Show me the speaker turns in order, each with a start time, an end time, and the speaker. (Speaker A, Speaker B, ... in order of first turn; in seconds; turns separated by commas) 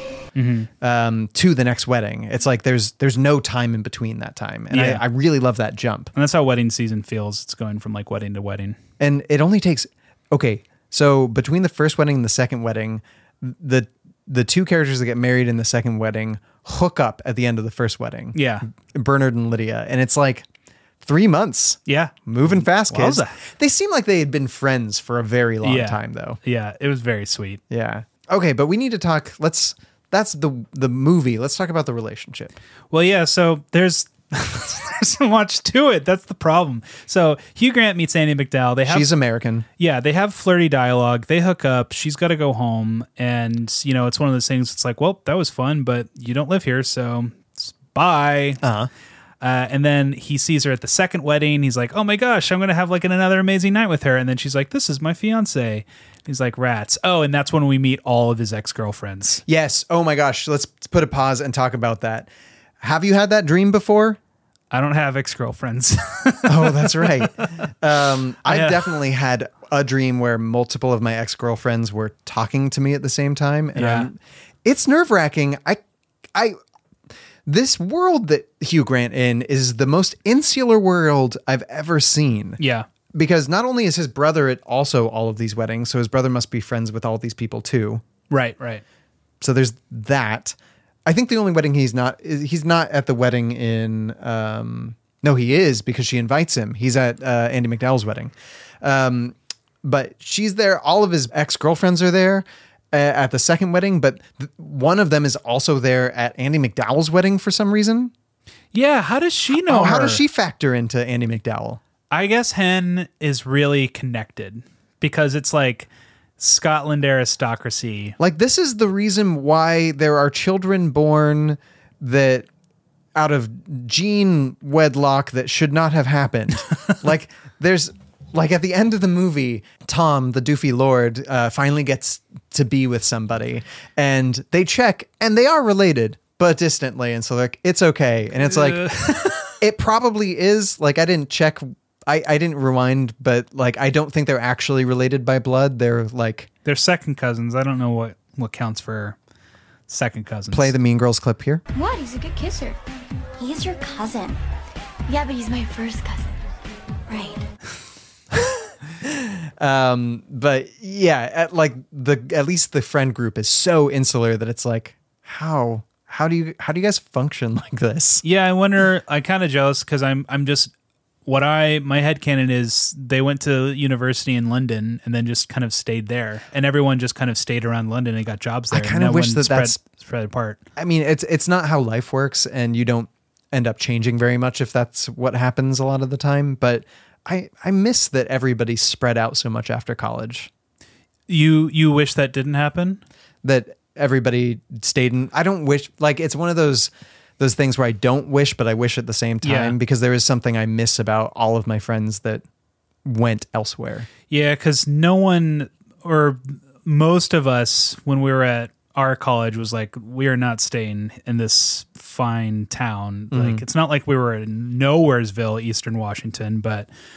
Speaker A: 0.3-0.7, Speaker B: 0.8-6.1, Speaker A: 4.7-5.0, Speaker A: 6.1-8.8, Speaker B: 9.0-20.4, Speaker A: 18.3-18.6, Speaker B: 21.0-26.4, Speaker A: 21.9-23.4, Speaker A: 25.6-27.6, Speaker B: 27.7-32.6, Speaker A: 32.9-39.1, Speaker B: 38.9-39.6, Speaker A: 39.8-48.6, Speaker B: 48.6-48.9, Speaker A: 49.4-59.4, Speaker B: 59.5-62.3, Speaker B: 62.8-64.2, Speaker A: 64.7-67.5, Speaker B: 66.5-75.8, Speaker A: 68.4-68.9, Speaker A: 73.8-74.1, Speaker B: 77.5-82.6, Speaker A: 82.6-82.8, Speaker B: 83.1-88.0, Speaker A: 88.3-88.8, Speaker B: 89.4-108.1, Speaker A: 108.7-110.2, Speaker B: 109.5-111.8, Speaker A: 112.1-118.2, Speaker B: 118.2-122.5, Speaker B: 123.1-138.9, Speaker A: 138.4-139.6, Speaker B: 139.5-146.5, Speaker A: 146.6-149.2, Speaker A: 149.9-150.7, Speaker B: 150.5-151.6, Speaker C: 151.7-152.8, Speaker C: 153.4-154.4, Speaker C: 155.1-156.4, Speaker C: 157.1-157.4, Speaker B: 159.0-168.2, Speaker A: 168.2-170.7, Speaker A: 171.2-180.6, Speaker B: 178.7-179.8, Speaker B: 180.8-190.5, Speaker A: 191.3-193.0, Speaker B: 193.4-202.4, Speaker A: 199.4-199.8, Speaker B: 203.0-204.1, Speaker A: 204.3-216.9, Speaker B: 213.3-213.6